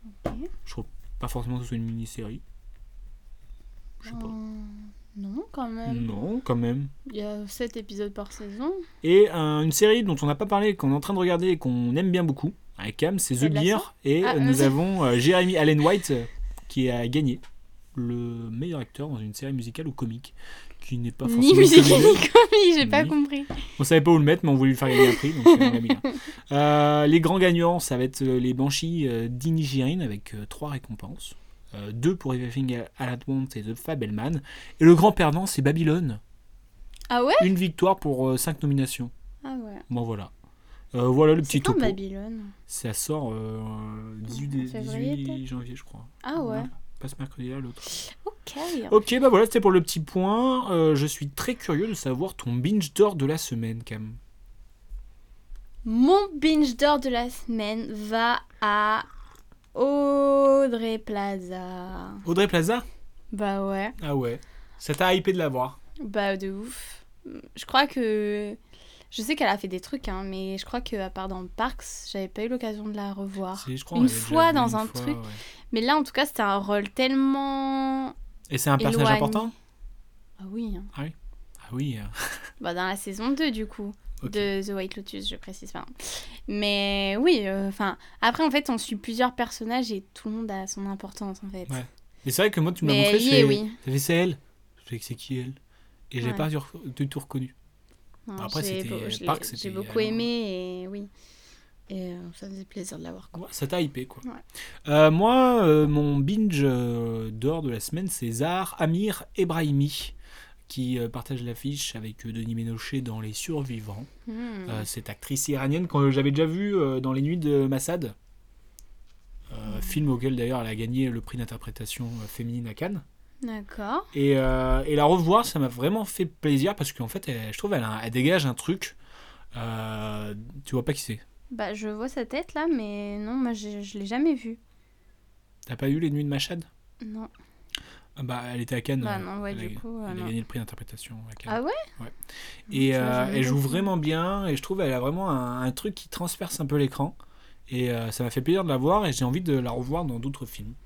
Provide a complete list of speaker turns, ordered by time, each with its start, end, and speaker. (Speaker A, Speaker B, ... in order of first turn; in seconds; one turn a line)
Speaker A: 0.2-0.5
Speaker B: 0.7-2.4
Speaker B: 4.0-4.3
Speaker A: 4.0-6.2
Speaker B: 5.8-6.9
Speaker A: 7.0-8.8
Speaker B: 9.0-17.4
Speaker A: 13.4-14.7
Speaker B: 17.9-22.3
Speaker A: 21.2-23.6
Speaker B: 22.8-23.1
Speaker B: 23.8-36.2
Speaker A: 24.9-26.1
Speaker A: 37.1-37.5
Speaker B: 37.4-39.1
Speaker A: 39.4-39.8
Speaker B: 39.9-40.3
Speaker B: 40.9-42.0
Speaker A: 41.4-42.5
Speaker B: 42.7-47.8
Speaker A: 44.3-45.4
Speaker A: 46.2-46.7
Speaker A: 47.9-48.9
Speaker B: 48.9-54.2
Speaker A: 55.8-59.0
Speaker A: 59.7-62.2
Speaker B: 62.2-62.9
Speaker A: 63.3-64.0
Speaker B: 64.0-65.8
Speaker A: 66.0-68.6
Speaker A: 69.1-75.2
Speaker B: 73.6-75.4
Speaker A: 75.7-78.1
Speaker B: 78.5-79.5
Speaker A: 78.8-79.5
Speaker A: 80.4-80.9
Speaker B: 80.9-82.4
Speaker A: 82.6-91.8
Speaker B: 84.2-84.5
Speaker B: 91.7-95.6
Speaker A: 92.8-93.8
Speaker B: 96.1-97.5
Speaker A: 98.3-101.1
Speaker B: 98.4-100.2
Speaker A: 101.9-103.4
Speaker B: 103.3-104.2
Speaker B: 104.8-110.1
Speaker B: 110.7-114.1
Speaker A: 114.3-114.8
Speaker B: 114.7-118.1
Speaker B: 119.5-123.0
Speaker A: 123.4-124.1
Speaker B: 124.1-128.9
Speaker B: 129.5-131.2
Speaker A: 131.5-134.6
Speaker B: 135.7-136.7
Speaker A: 137.0-137.3
Speaker B: 138.2-142.1
Speaker A: 139.0-140.3
Speaker A: 141.5-141.8
Speaker B: 142.7-147.2
Speaker A: 142.7-143.9
Speaker B: 147.7-150.8